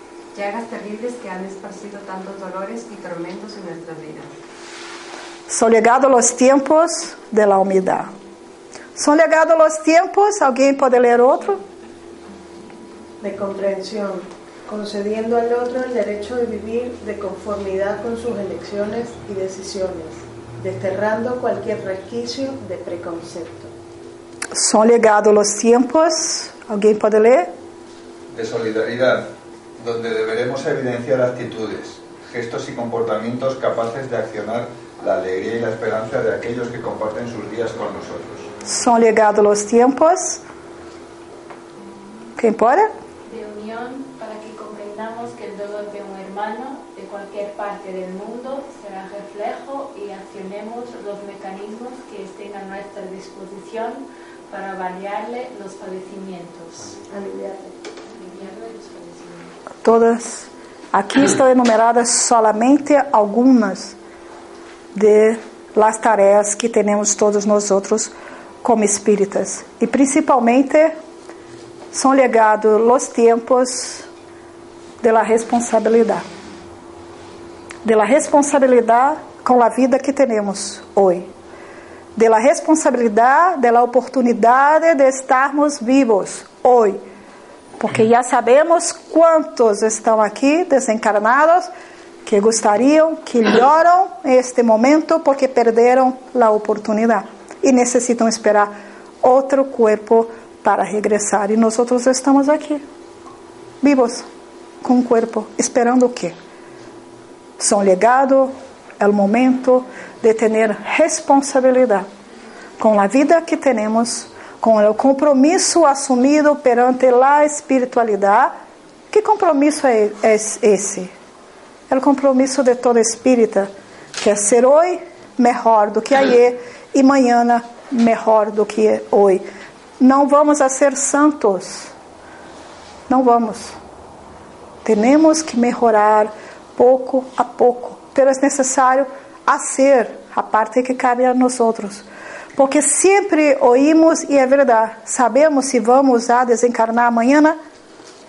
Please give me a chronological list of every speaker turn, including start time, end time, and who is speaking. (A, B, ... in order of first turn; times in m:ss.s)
0:00.3-0:04.3 A
0:05.5-0:08.1 B
0:09.0-0:11.6 B
0:13.2-0:23.7 C
0:24.5-0:27.5 B
0:28.3-0:38.5 D
0:38.6-0:40.4 B
0:42.4-0:42.9 B
0:43.2-0:57.0 E
0:57.1-0:57.8 C
0:58.1-0:59.5 E
0:59.8-1:04.0 B
1:04.9-1:10.9 B
1:11.9-1:14.0 B
1:15.0-1:16.2 B
1:17.8-1:21.3 B
1:22.2-1:27.0 B
1:27.8-1:31.7 B
1:32.2-1:42.8 B
1:43.8-1:44.2 B
1:44.8-1:46.4 B
1:47.6-1:52.1 B
1:52.8-1:58.5 B
1:59.1-2:01.1 B
2:01.9-2:09.4 B
2:10.0-2:11.9 B
2:13.1-2:13.8 B
2:14.8-2:22.0 B
2:22.6-2:27.6 B